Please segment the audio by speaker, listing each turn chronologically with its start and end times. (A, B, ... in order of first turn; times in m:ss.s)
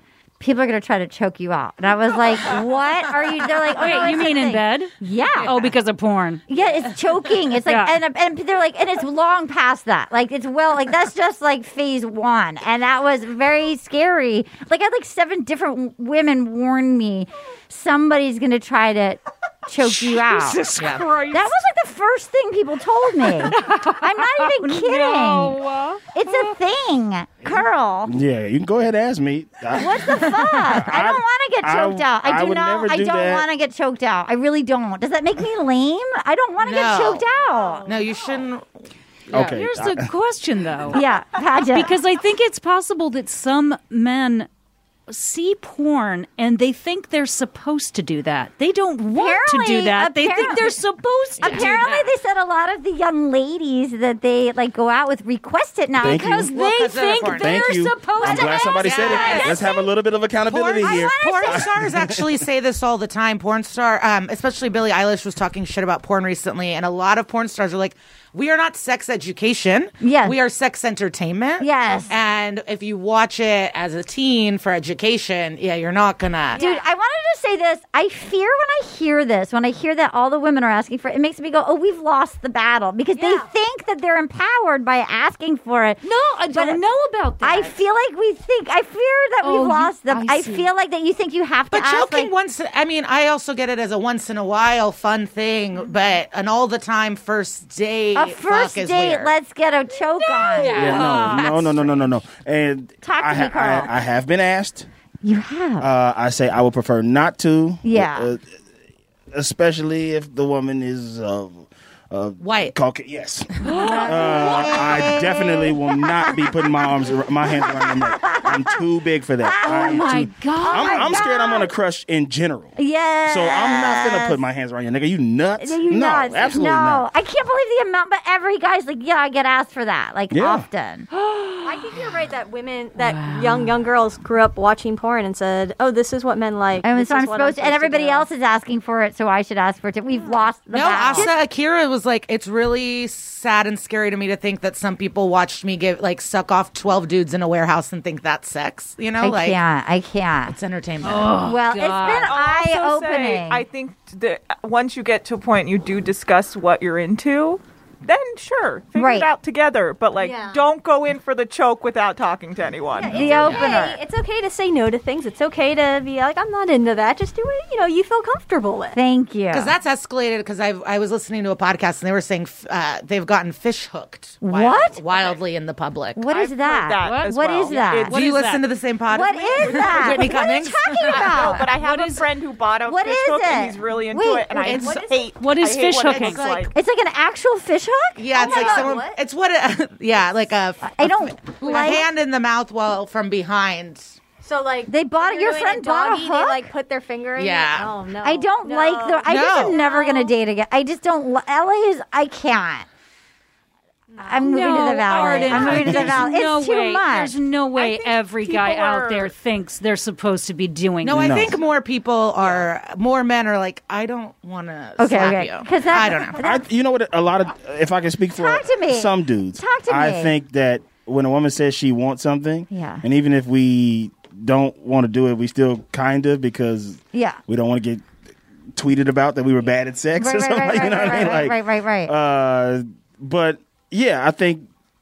0:00.4-0:05.7 A
0:03.8-0:06.4 B
0:06.5-0:20.7 A
0:07.6-0:07.9 B
0:19.8-0:21.5 B
0:20.8-0:21.0 C
0:21.3-0:25.6 A
0:23.4-0:26.5 B
0:26.1-0:28.1 A
0:28.1-0:33.4 D
0:29.8-0:37.9 A
0:36.6-0:37.2 C
0:37.8-0:38.7 C
0:39.3-0:39.6 C
0:39.3-0:40.1 D
0:39.4-0:41.0 B
0:40.9-0:41.9 A
0:41.6-0:44.5 B
0:45.1-0:52.1 B
0:49.1-0:50.8 A
0:51.4-0:51.7 C
0:51.4-0:56.5 A
0:56.0-0:56.5 D
0:56.0-0:59.6 B
0:56.4-0:57.7 C
0:57.2-1:02.3 D
0:58.2-0:59.6 C
0:58.5-0:59.9 A
1:00.5-1:16.6 C
1:00.8-1:01.8 A
1:10.0-1:10.4 A
1:11.6-1:12.1 A
1:16.5-1:16.8 E
1:16.6-1:26.8 A
1:23.1-1:23.4 B
1:26.0-1:27.7 B
1:27.4-1:32.3 A
1:29.4-1:30.7 B
1:31.7-1:39.3 C
1:38.1-1:41.5 A
1:40.2-1:41.8 B
1:40.7-1:44.9 D
1:43.0-1:43.9 A
1:45.2-1:45.9 A
1:45.8-1:48.4 D
1:47.8-1:48.3 A
1:49.3-1:53.5 D
1:52.4-1:52.7 C
1:53.6-1:54.5 B
1:53.8-1:56.8 A
1:54.0-2:02.7 D
1:57.4-1:58.8 A
1:59.4-2:01.7 A
1:59.6-2:01.2 B
2:02.8-2:04.4 A
2:03.2-2:07.0 D
2:05.6-2:11.1 A
2:10.3-2:10.7 D
2:11.1-2:11.8 B
2:11.6-2:18.3 E
2:13.0-2:13.7 B
2:16.8-2:21.4 A
2:20.7-2:29.6 C
2:29.2-2:30.6 A
2:30.5-2:31.4 C
2:31.0-2:32.3 B
2:31.4-2:33.6 A
2:32.0-2:43.6 F
2:38.9-2:39.3 A
2:40.2-2:40.7 E
2:42.9-2:49.0 E
2:43.1-2:44.0 A
2:48.9-2:49.7 A
2:49.5-2:56.2 C
2:54.4-2:55.0 A
2:56.2-2:58.1 A
2:56.3-2:58.1 F
2:57.0-2:58.6 B
2:58.1-3:01.5 C
2:59.1-3:01.7 A
2:59.6-3:00.3 F
3:01.1-3:06.7 F
3:01.7-3:02.3 B
3:02.9-3:04.8 A
3:04.6-3:05.2 C
3:04.7-3:05.2 E
3:05.4-3:06.5 B
3:06.0-3:06.7 C
3:06.7-3:08.7 A
3:08.2-3:14.2 C
3:08.3-3:09.2 E
3:10.9-3:12.1 A
3:14.4-3:20.3 E
3:14.9-3:16.7 A
3:17.4-3:17.9 C
3:18.2-3:22.9 A
3:19.2-3:19.8 C
3:24.2-3:24.8 E
3:24.2-3:27.3 A
3:24.4-3:31.4 B
3:25.4-3:26.2 D
3:27.8-3:29.2 F
3:31.0-3:36.4 C
3:31.1-3:31.6 D
3:35.0-3:36.6 A
3:36.4-3:48.0 D
3:38.4-3:40.3 A
3:42.7-3:43.0 A
3:47.1-3:47.4 A
3:48.8-3:54.7 D
3:50.2-3:52.1 A